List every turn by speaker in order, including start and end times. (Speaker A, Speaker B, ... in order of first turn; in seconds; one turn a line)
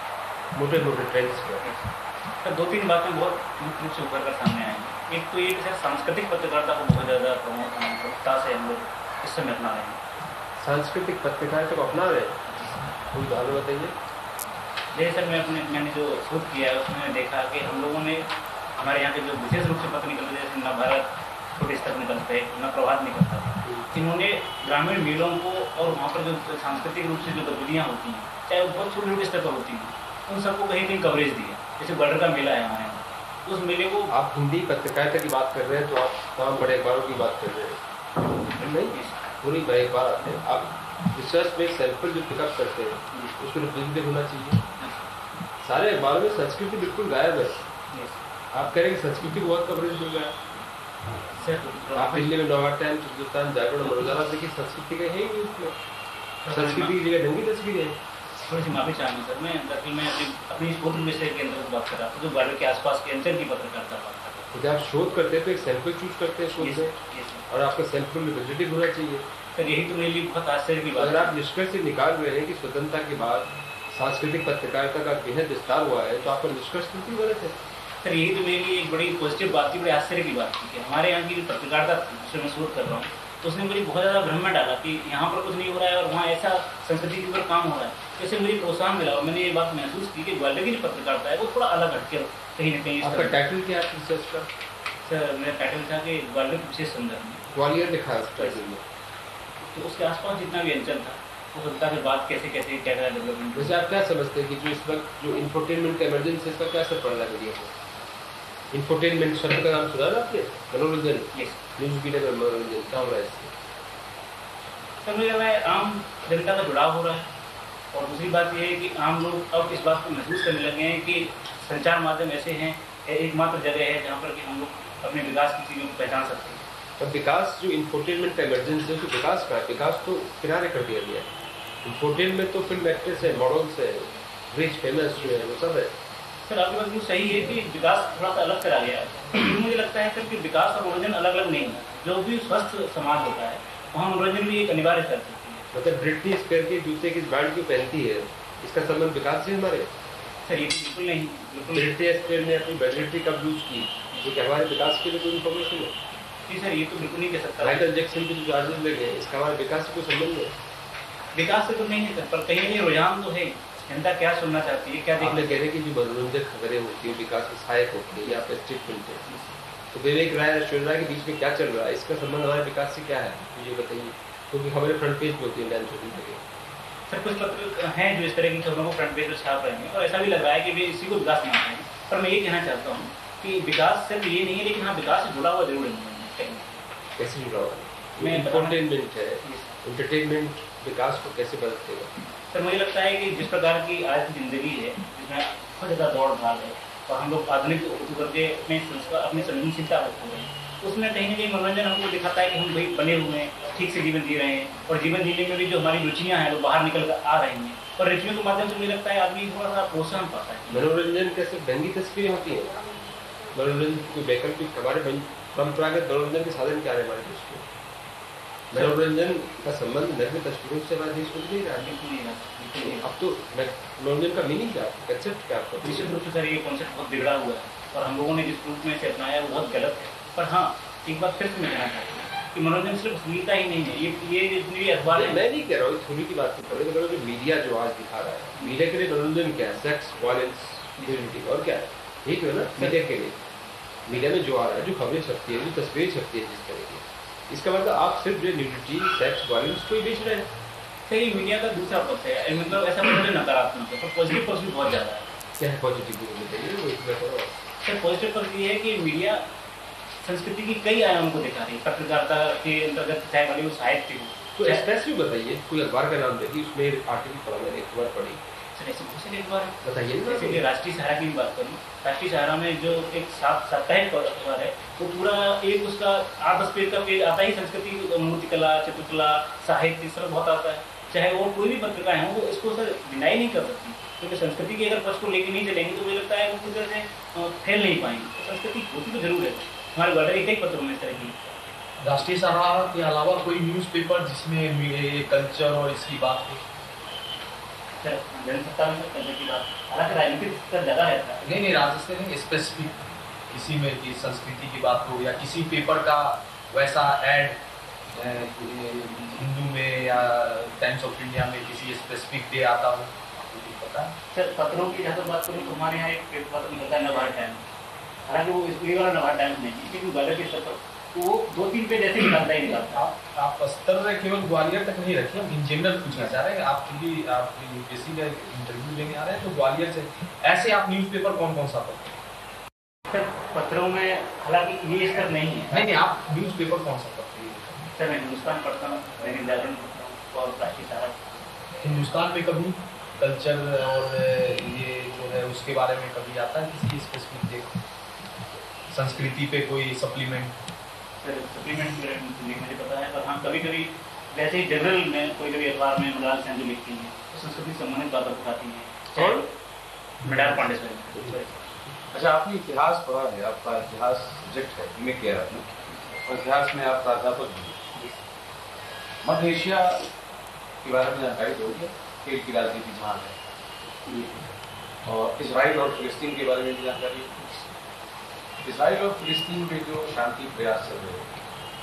Speaker A: 0.6-1.6
Speaker B: 1.6-1.9
Speaker B: 2.4-10.0
Speaker A: 10.6-12.4
Speaker B: 12.5-12.9
Speaker A: 13.1-13.9
Speaker B: 14.9-34.1
Speaker A: 23.6-23.9
Speaker A: 34.1-37.8
Speaker A: 38.6-44.6
Speaker B: 38.6-39.2
Speaker B: 43.1-43.4
Speaker B: 44.8-45.1
Speaker A: 45.6-47.6
Speaker B: 47.9-48.2
Speaker A: 48.5-50.4
Speaker B: 51.3-52.4
Speaker A: 52.0-55.8
Speaker B: 56.4-56.9
Speaker A: 56.5-58.0
Speaker B: 58.5-64.5
Speaker A: 64.5-67.0
Speaker B: 66.6-67.5
Speaker A: 67.5-69.3
Speaker B: 69.5-71.3
Speaker A: 71.0-77.6
Speaker B: 78.0-93.4
Speaker A: 93.0-94.5
Speaker B: 95.0-97.5
Speaker A: 97.5-98.8
Speaker B: 98.4-98.6
Speaker B: 99.7-103.8
Speaker A: 103.5-107.7
Speaker A: 108.7-113.5
Speaker B: 111.3-111.6
Speaker B: 115.0-117.3
Speaker B: 117.9-126.7
Speaker A: 127.0-131.3
Speaker A: 131.8-136.0
Speaker B: 136.4-145.7
Speaker A: 145.7-149.9
Speaker B: 150.4-151.9
Speaker A: 151.7-155.9
Speaker B: 154.1-154.4
Speaker B: 156.5-157.9
Speaker A: 157.6-160.6
Speaker B: 161.3-165.6
Speaker A: 165.2-169.2
Speaker B: 169.3-169.6
Speaker A: 169.9-176.4
Speaker B: 177.1-186.8
Speaker A: 187.2-192.1
Speaker B: 188.2-188.9
Speaker B: 189.4-189.8
Speaker B: 192.5-210.9
Speaker A: 210.7-212.8
Speaker A: 213.5-217.7
Speaker A: 218.7-221.9
Speaker B: 218.7-219.0
Speaker B: 221.8-223.1
Speaker A: 222.8-226.2
Speaker B: 225.8-235.4
Speaker A: 235.1-243.4
Speaker B: 241.0-241.3
Speaker A: 244.1-250.5
Speaker B: 251.1-255.3
Speaker A: 255.6-257.5
Speaker B: 257.8-259.4
Speaker B: 260.2-264.8
Speaker A: 264.6-268.4
Speaker B: 268.7-291.6
Speaker A: 269.8-270.6
Speaker C: 292.0-296.6
Speaker B: 298.0-301.4
Speaker C: 301.4-303.0
Speaker C: 303.5-307.6
Speaker C: 308.1-314.1
Speaker B: 314.3-317.7
Speaker B: 318.3-323.1
Speaker C: 322.8-332.1
Speaker B: 333.1-335.8
Speaker C: 335.7-337.8
Speaker B: 337.9-341.4
Speaker C: 341.8-347.8
Speaker C: 348.9-350.6
Speaker B: 351.2-359.5
Speaker A: 359.2-359.4
Speaker B: 360.2-361.7
Speaker D: 362.1-367.8
Speaker D: 369.2-370.1
Speaker D: 370.8-373.4
Speaker B: 374.1-374.4
Speaker D: 375.1-377.6
Speaker D: 378.6-381.3